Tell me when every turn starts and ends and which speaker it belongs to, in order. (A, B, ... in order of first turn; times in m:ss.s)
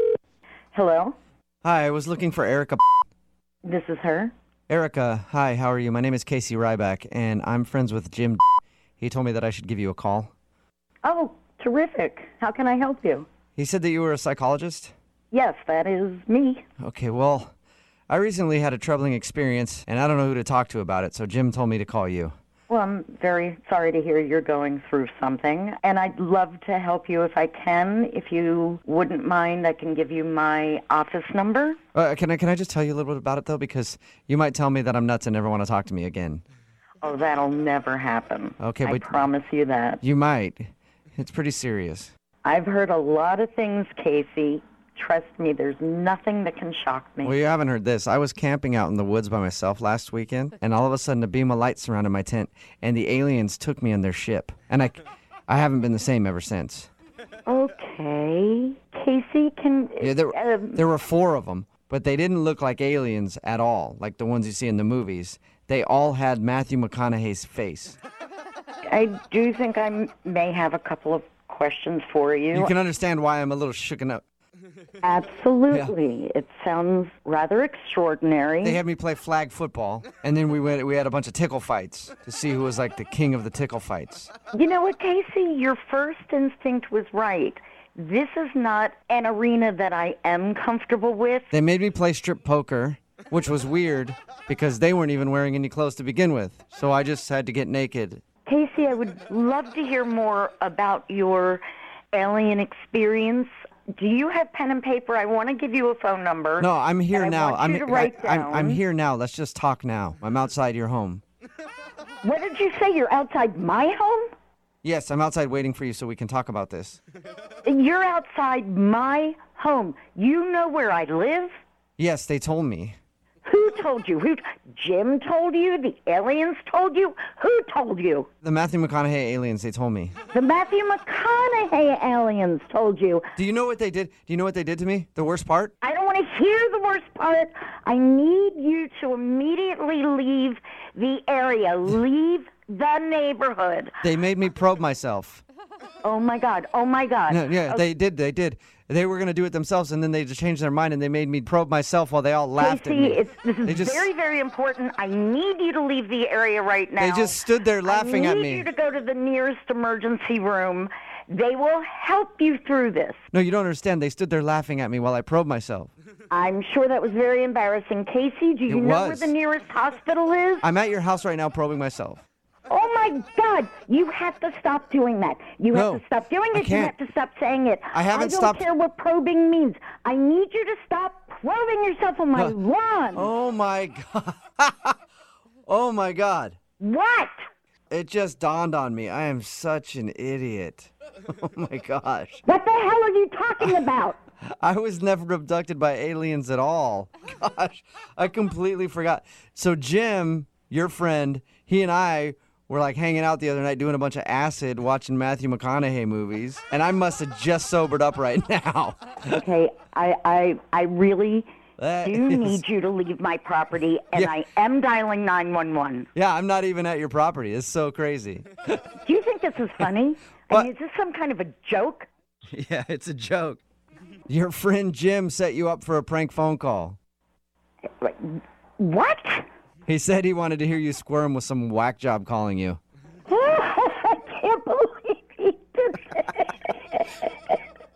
0:00.7-0:01.2 A
0:01.6-0:02.8 B
0:03.6-0:04.3 A
0:04.7-0:08.4 B
0:09.0-0:10.3 B
0:11.0-0:13.3 A
0:13.6-0:14.9 B
0:15.3-0:16.6 A
0:16.8-0:17.5 B
0:18.1-0:22.3 B
0:22.7-0:31.8 A
0:31.9-0:36.4 B
0:37.0-0:40.0 A
0:38.6-0:39.2 B
0:40.0-0:42.1 B
0:42.4-0:47.4 A
0:47.2-0:56.9 B
0:57.5-1:00.8 A
1:00.0-1:08.0 B
1:08.9-1:12.7 A
1:12.5-1:14.2 B
1:15.0-1:18.8 A
1:18.6-1:24.3 B
1:24.5-1:31.5 A
1:31.5-1:38.2 B
1:38.5-1:48.8 A
1:46.6-1:51.2 B
1:52.2-1:54.3 A
1:54.8-1:57.0 B
1:57.6-2:01.5 A
2:02.0-2:03.0 B
2:03.4-2:08.3 A
2:08.4-2:10.2 B
2:10.3-2:13.3 A
2:13.4-2:15.7 B
2:15.8-2:23.9 A
2:24.0-2:25.4 B
2:26.0-2:27.8 A
2:27.3-2:34.1 B
2:32.6-2:43.2 A
2:37.0-2:38.7 B
2:43.3-2:45.9 B
2:46.3-2:50.7 A
2:48.7-2:49.3 B
2:50.6-2:52.2 B
2:52.7-3:03.3 A
2:55.7-2:56.0 B
2:56.5-2:56.9 B
2:57.9-2:58.6 B
3:03.1-3:04.9 B
3:05.7-3:06.6 B
3:06.8-3:07.3 A
3:07.9-3:12.4 B
3:12.5-3:14.2 A
3:14.6-3:29.4 B
3:29.3-3:31.5 A
3:31.8-3:32.6 B
3:32.0-3:36.1 A
3:36.2-3:38.9 B
3:39.0-3:42.1 A
3:42.5-3:43.6 B
3:44.3-3:47.0 B
3:48.0-3:49.5 A
3:49.9-3:52.8 B
3:53.3-3:57.1 A